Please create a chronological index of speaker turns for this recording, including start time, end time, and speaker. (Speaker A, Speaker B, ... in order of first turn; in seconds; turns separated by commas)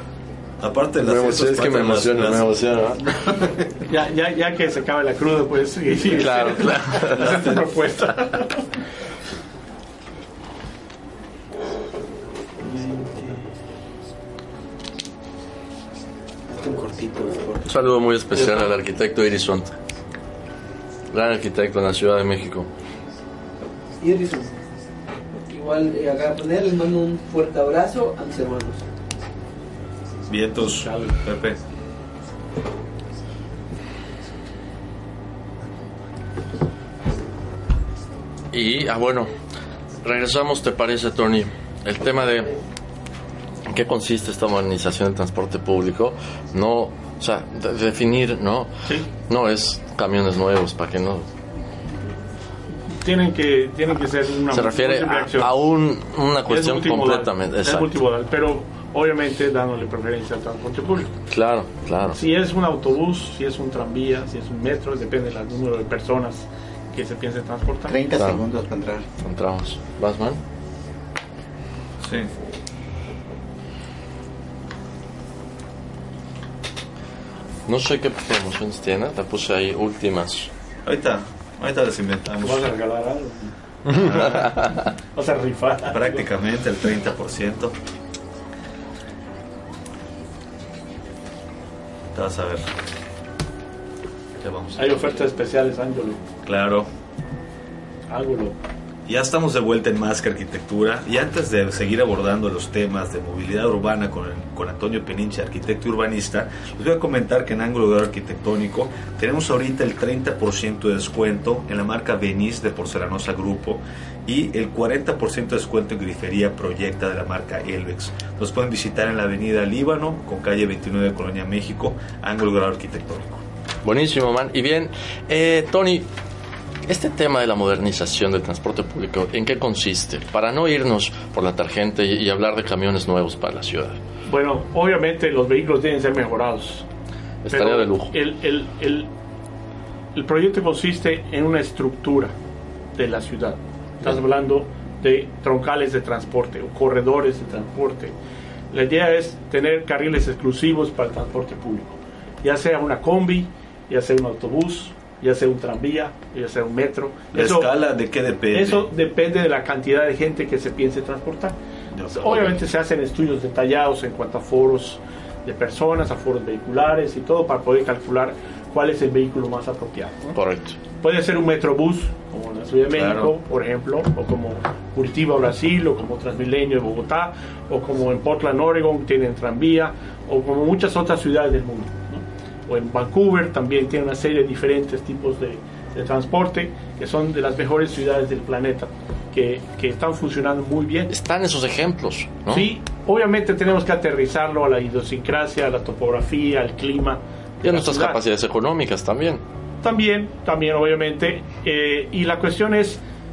Speaker A: 0.6-2.4, Speaker B: 1.0-3.4, Speaker C: 3.9-8.6, Speaker B: 6.1-7.4, Speaker C: 12.7-13.3, Speaker D: 16.5-17.6, Speaker B: 17.6-19.7, Speaker B: 21.1-22.7, Speaker E: 24.0-24.6, Speaker E: 25.5-28.8, Speaker A: 30.3-31.6, Speaker C: 30.8-31.1, Speaker B: 38.5-39.3, Speaker B: 40.0-42.6, Speaker B: 43.7-51.3, Speaker C: 52.9-55.5, Speaker B: 54.5-57.9, Speaker C: 56.5-61.1, Speaker B: 61.3-62.2, Speaker C: 62.1-68.0, Speaker D: 67.9-69.0, Speaker B: 68.1-68.5, Speaker B: 69.2-70.4, Speaker A: 72.0-72.3, Speaker B: 77.7-80.5, Speaker A: 80.8-82.7, Speaker C: 82.4-83.5, Speaker B: 83.9-84.7, Speaker A: 83.9-84.8, Speaker C: 85.1-86.2, Speaker A: 85.9-87.8, Speaker A: 92.1-92.7, Speaker A: 94.4-95.1, Speaker C: 94.8-96.2, Speaker A: 96.4-96.9, Speaker C: 98.1-98.6, Speaker A: 99.1-123.4, Speaker B: 123.8-126.1, Speaker B: 126.9-134.0, Speaker C: 134.3-136.8, Speaker B: 137.4-138.1, Speaker C: 137.5-139.1, Speaker C: 140.1-142.3, Speaker C: 143.0-148.1, Speaker C: 148.7-157.7, Speaker A: 157.3-158.8, Speaker C: 158.5-161.6, Speaker A: 161.9-162.6, Speaker C: 162.1-170.4, Speaker B: 170.3-170.8, Speaker C: 171.0-191.1, Speaker A: 172.9-173.3, Speaker B: 191.1-192.7, Speaker C: 192.5-198.2, Speaker B: 197.6-199.4, Speaker C: 199.8-203.0